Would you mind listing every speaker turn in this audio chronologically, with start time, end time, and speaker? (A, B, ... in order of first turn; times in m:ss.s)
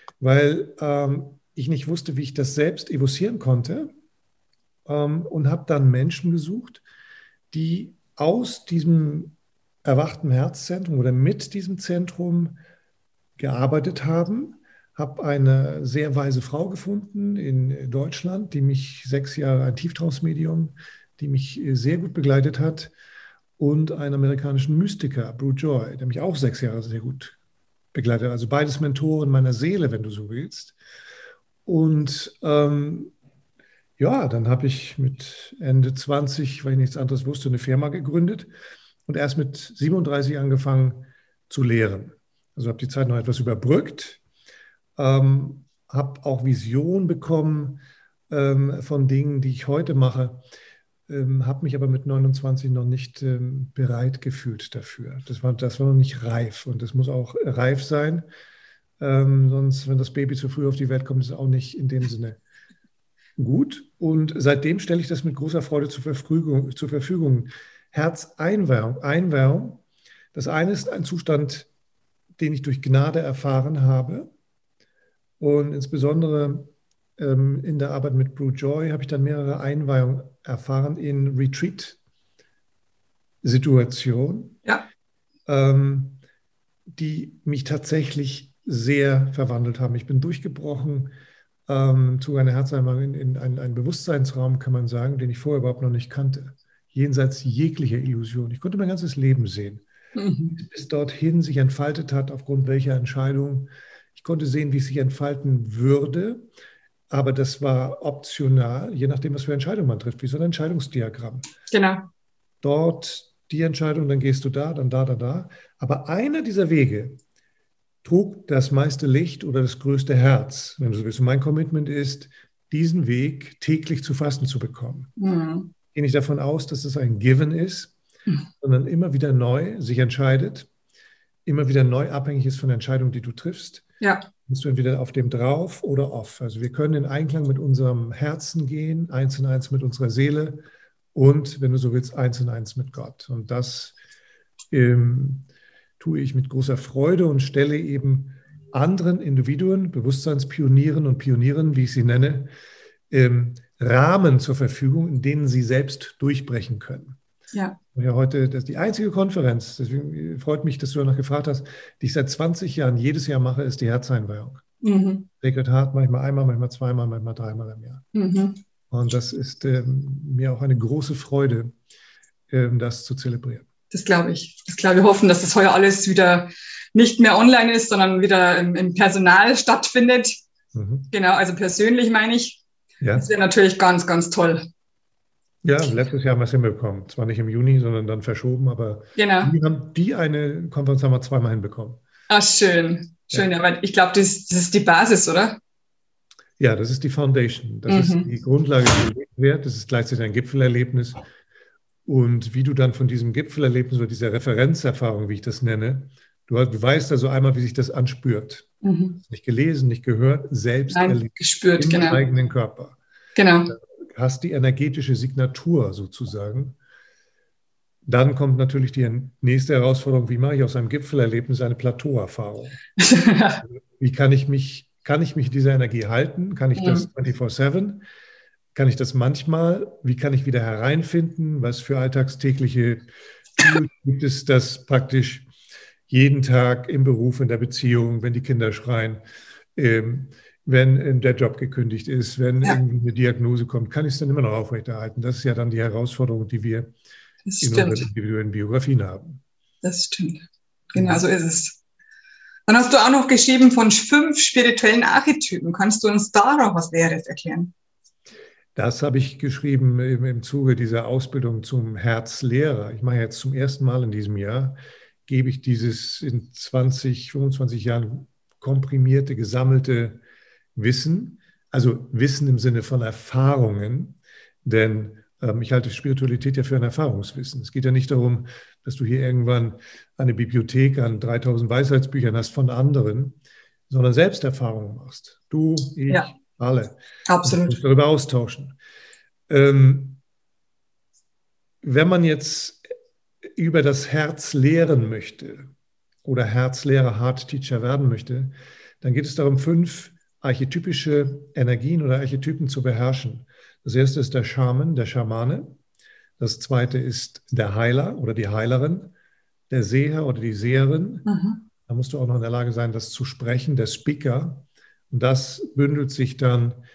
0:00.2-0:03.9 A
0:04.8-0:06.8 A
0:07.5-0:12.6 A
0:13.4-0:22.9 A
0:23.6-0:27.4 A
0:27.9-0:30.8 A
0:31.6-0:33.1 A
0:34.0-0:38.5 A
0:39.0-0:44.2 A
0:45.0-0:50.4 A
0:51.1-0:58.2 A
0:59.0-1:02.4 A
1:03.4-1:11.7 A
1:12.4-1:14.3 A
1:15.4-1:22.0 A
1:23.4-1:24.6 A
1:25.4-1:26.2 A
1:26.9-1:31.1 A
1:31.7-1:39.8 A
1:40.1-1:40.6 B
1:40.5-1:46.5 A
1:47.1-1:51.5 A
1:51.7-1:52.1 B
1:52.6-1:57.2 A
1:58.0-2:05.1 A
2:05.2-2:05.7 B
2:05.9-2:07.9 A
2:08.6-2:10.7 A
2:11.4-2:13.8 A
2:14.0-2:14.3 B
2:14.4-2:20.6 A
2:21.1-2:24.0 A
2:24.7-2:25.5 A
2:26.0-2:32.5 A
2:33.1-2:37.2 A
2:37.5-2:37.8 B
2:37.9-2:44.6 A
2:44.8-2:45.3 B
2:45.4-2:48.0 A
2:48.1-2:48.6 B
2:48.9-2:51.8 A
2:52.5-2:53.6 A
2:53.9-3:00.4 B
3:00.7-3:01.1 A
3:01.1-3:02.6 B
3:03.0-3:03.3 A
3:03.1-3:04.6 B
3:05.6-3:12.0 A
3:09.2-3:09.5 B
3:12.3-3:15.6 B
3:16.6-3:21.2 A
3:17.9-3:18.3 B
3:22.0-3:28.7 A
3:28.8-3:29.2 B
3:29.2-3:33.0 A
3:30.9-3:32.2 B
3:33.4-3:33.7 B
3:33.7-3:36.8 A
3:38.0-3:42.8 A
3:43.0-3:43.6 B
3:43.6-3:48.0 A
3:46.8-3:47.1 B
3:48.7-3:53.0 A
3:53.6-3:55.5 A
3:56.1-3:59.2 A
3:59.8-4:06.9 A
4:07.4-4:08.0 B
4:07.6-4:09.4 A
4:09.8-4:11.8 B
4:10.9-4:11.2 A
4:12.7-4:17.7 B
4:18.7-4:30.2 A
4:30.7-4:48.8 A
4:47.3-4:47.8 B
4:49.5-4:50.2 A
4:51.8-4:52.8 A
4:53.5-4:55.7 A
4:56.2-5:05.8 A
5:06.4-5:09.1 A
5:09.7-5:11.3 A
5:11.2-5:11.6 B
5:11.9-5:16.8 A